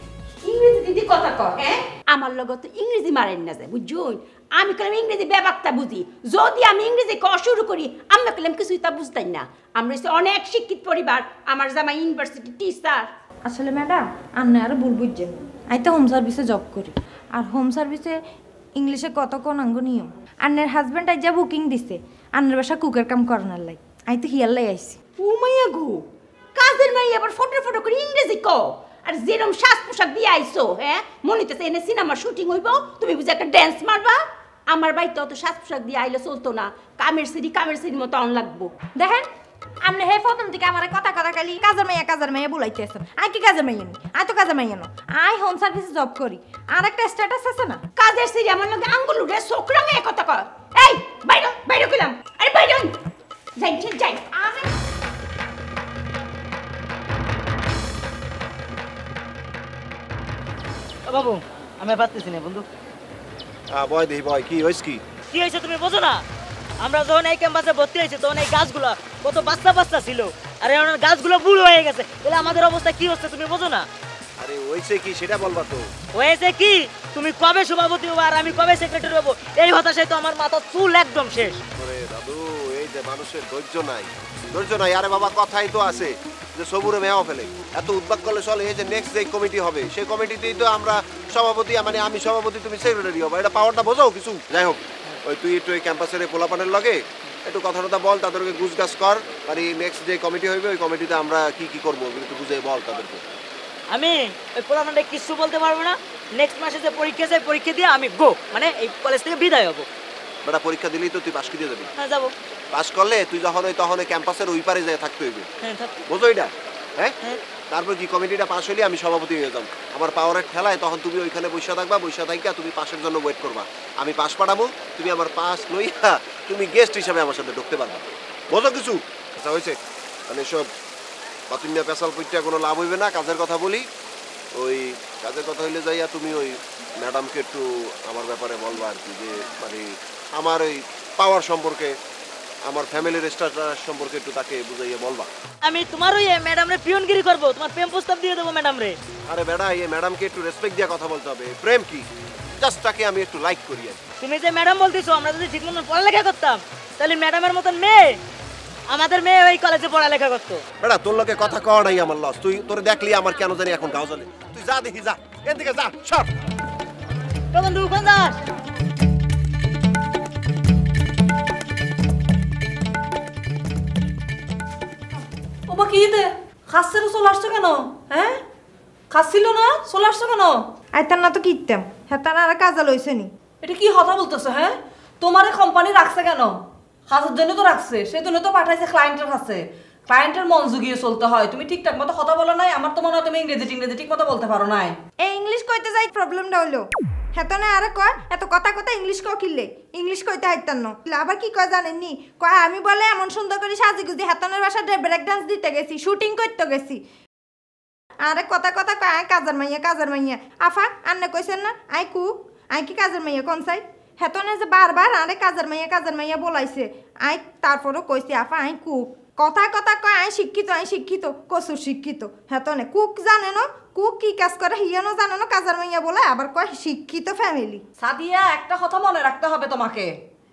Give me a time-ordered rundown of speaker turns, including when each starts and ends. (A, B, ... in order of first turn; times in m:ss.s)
0:00.3-0:13.1 A
0:13.5-0:18.2 B
0:18.8-0:25.0 B
0:25.2-0:38.7 A
0:39.0-0:39.2 B
0:39.8-0:47.8 B
0:48.0-0:53.0 A
0:53.6-0:54.7 A
1:01.1-1:02.6 C
1:03.7-1:05.0 D
1:05.3-1:06.2 C
1:06.8-1:13.8 C
1:14.4-1:15.8 D
1:16.1-1:21.6 C
1:21.8-1:43.2 D
1:43.9-1:49.8 C
1:50.4-1:51.9 D
1:52.0-1:52.3 C
1:52.7-1:55.5 D
1:55.6-1:55.9 C
1:56.1-1:57.2 D
1:57.7-2:09.7 D
2:10.3-2:10.7 D
2:11.5-2:13.9 D
2:14.6-2:21.9 D
2:22.7-2:25.3 D
2:25.6-2:29.0 C
2:29.3-2:32.0 D
2:32.6-2:34.0 D
2:34.2-2:38.2 C
2:38.9-2:40.6 C
2:40.8-2:46.3 D
2:47.5-2:48.4 C
2:55.7-2:58.4 E
2:59.1-3:00.6 E
3:00.9-3:03.3 B
3:03.6-3:06.6 E
3:07.1-3:14.9 E
3:15.2-3:16.8 B
3:17.3-3:27.0 B
3:28.2-3:47.8 B
3:48.0-3:50.1 E